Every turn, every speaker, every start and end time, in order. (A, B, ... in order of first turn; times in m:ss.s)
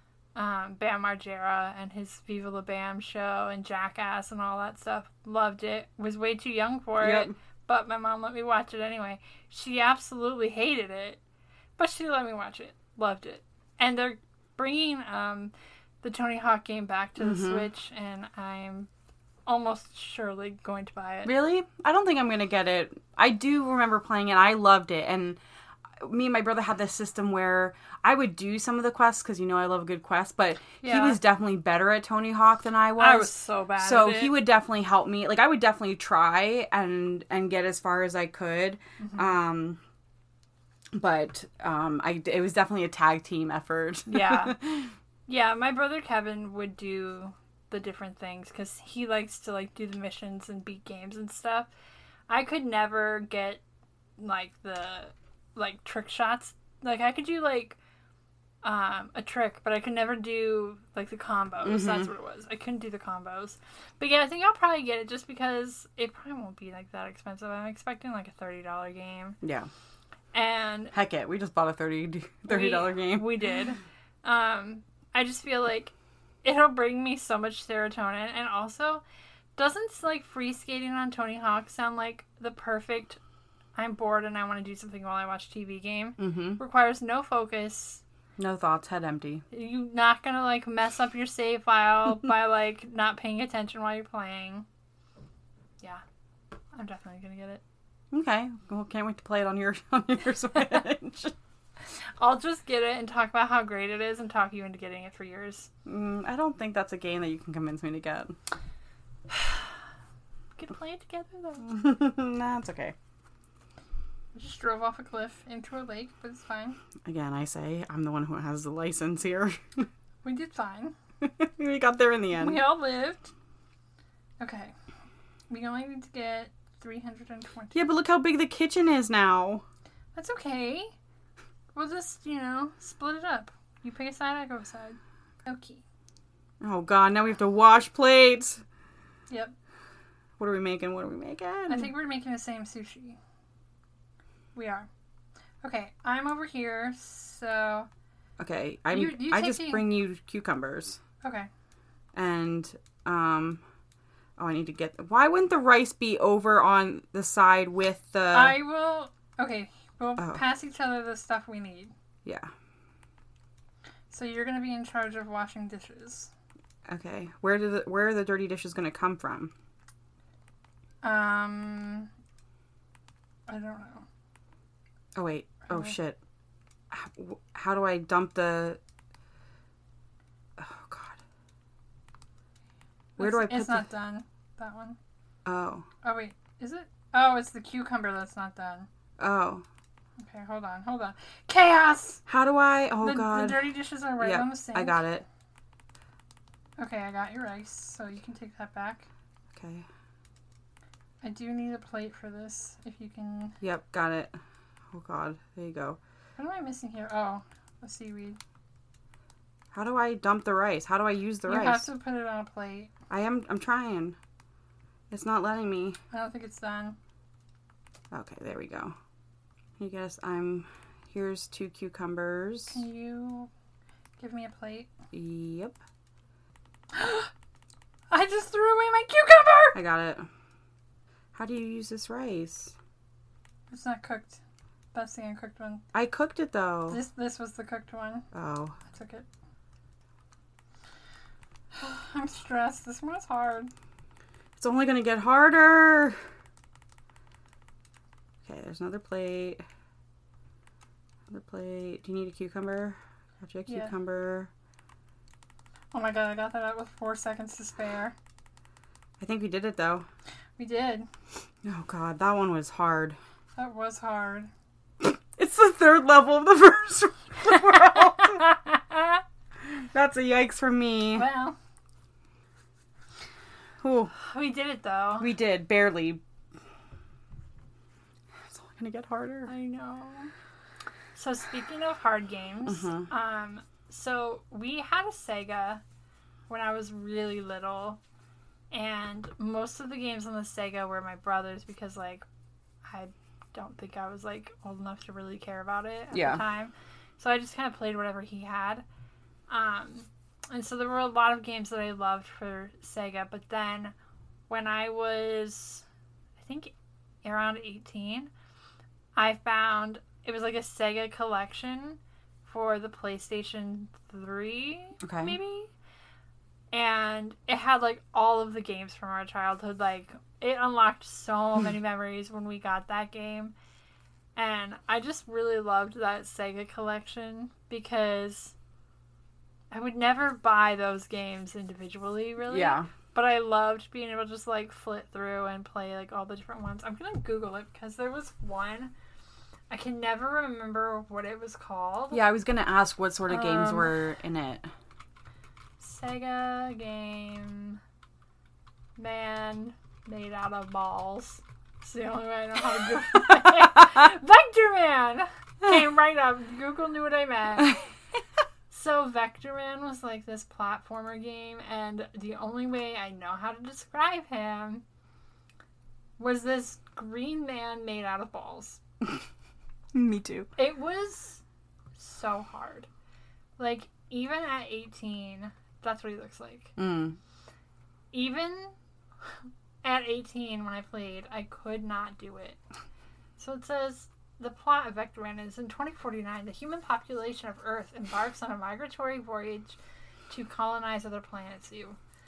0:00.3-0:11.2 A
0:07.0-0:07.3 B
0:11.8-0:18.9 A
0:17.2-0:17.7 B
0:19.4-0:21.3 A
0:21.2-0:25.4 B
0:26.0-0:39.8 B
0:30.8-0:31.2 A
0:33.0-0:34.4 A
0:39.0-0:39.3 A
0:40.9-0:44.9 B
0:44.1-0:44.6 A
0:45.3-0:51.7 A
0:52.3-0:53.6 A
0:54.2-0:57.8 A
0:58.6-1:09.4 A
1:01.6-1:02.1 B
1:09.4-1:09.7 B
1:10.3-1:10.9 A
1:10.9-1:13.3 B
1:12.5-1:15.9 A
1:16.4-1:19.0 A
1:19.6-1:23.2 A
1:23.8-1:28.0 A
1:26.2-1:26.6 B
1:28.4-1:29.4 B
1:29.5-1:34.6 A
1:36.7-1:37.6 A
1:38.1-1:41.3 B
1:42.2-1:45.7 A
1:45.8-1:48.3 B
1:50.6-1:51.6 A
1:51.6-1:52.9 B
1:54.3-1:56.8 A
1:57.0-1:59.9 B
2:00.2-2:00.9 A
2:01.2-2:02.6 B
2:02.3-2:03.3 A
2:04.4-2:04.7 A
2:05.5-2:07.8 A
2:07.7-2:09.6 B
2:10.1-2:10.9 A
2:11.7-2:15.8 A
2:16.6-2:18.6 B
2:20.4-2:21.9 B
2:21.7-2:23.2 A
2:24.5-2:24.9 A
2:25.6-2:27.9 A
2:28.4-2:31.0 B
2:28.9-2:29.9 A
2:31.2-2:31.5 A
2:32.1-2:33.6 B
2:34.4-2:38.6 B
2:38.3-2:41.9 A
2:40.2-2:40.4 B
2:44.1-2:46.3 A
2:46.9-2:49.5 B
2:51.0-2:52.1 A
2:53.5-2:54.0 A
2:55.1-2:56.2 B
2:55.7-2:55.9 A
2:56.9-2:58.8 B
3:00.6-3:01.2 B
3:03.2-3:03.8 B
3:03.2-3:05.0 A
3:05.4-3:05.8 B
3:06.0-3:08.9 A
3:09.2-3:09.6 B
3:10.2-3:12.2 A
3:12.3-3:13.6 B
3:13.0-3:15.0 A
3:14.2-3:15.2 B
3:16.8-3:19.1 A
3:19.5-3:19.8 B
3:21.2-3:23.6 A
3:23.6-3:24.4 B
3:24.9-3:26.0 B
3:26.4-3:28.4 A
3:29.7-3:31.9 B
3:31.5-3:32.9 A
3:33.1-3:34.2 B
3:35.1-3:36.0 B
3:36.1-3:37.0 A
3:38.1-3:38.9 B
3:39.8-3:42.8 B
3:42.7-3:43.5 A
3:44.2-3:44.9 A
3:45.1-3:45.8 B
3:46.9-3:47.3 A
3:48.1-3:49.8 A
3:49.7-3:50.2 B
3:51.3-3:52.7 B
3:53.7-3:54.4 A
3:54.9-3:55.8 A
3:55.9-3:57.0 B
3:56.9-3:58.3 A
3:58.3-3:58.8 B
3:58.9-3:59.2 A
4:01.7-4:03.7 A
4:04.6-4:06.2 B
4:08.4-4:09.6 B
4:11.3-4:14.5 B
4:13.7-4:13.9 A
4:15.9-4:18.2 A
4:19.2-4:20.0 B
4:20.6-4:21.1 A
4:21.6-4:23.2 B
4:23.6-4:24.5 A
4:25.0-4:28.4 B
4:28.0-4:29.2 A
4:29.6-4:31.3 B
4:31.1-4:31.6 A
4:33.8-4:34.1 B
4:34.2-4:35.3 A
4:35.2-4:36.2 B
4:38.5-4:39.5 B
4:39.5-4:40.3 A
4:41.1-4:45.8 A
4:42.7-4:43.1 B
4:46.5-4:48.0 A
4:48.7-4:52.2 A
4:52.8-4:58.8 A
4:56.1-4:56.4 B
4:59.5-5:03.9 A
5:04.5-5:05.8 A
5:06.4-5:06.7 A
5:07.2-5:08.3 A
5:09.2-5:15.7 A
5:15.0-5:15.4 B
5:16.7-5:23.5 A
5:24.4-5:28.5 A
5:29.7-5:38.9 A
5:32.5-5:32.9 B
5:39.7-5:42.2 A
5:42.1-5:44.7 B
5:43.3-5:44.0 A
5:45.8-5:47.8 A
5:49.0-5:57.8 A
5:58.7-6:04.8 A
6:06.2-6:08.8 A
6:09.9-6:10.5 B
6:10.6-6:11.4 A
6:12.0-6:12.9 A
6:13.6-6:16.8 A
6:16.8-6:17.2 B
6:18.1-6:18.7 A
6:19.8-6:22.6 A
6:23.4-6:29.8 A
6:30.3-6:32.0 A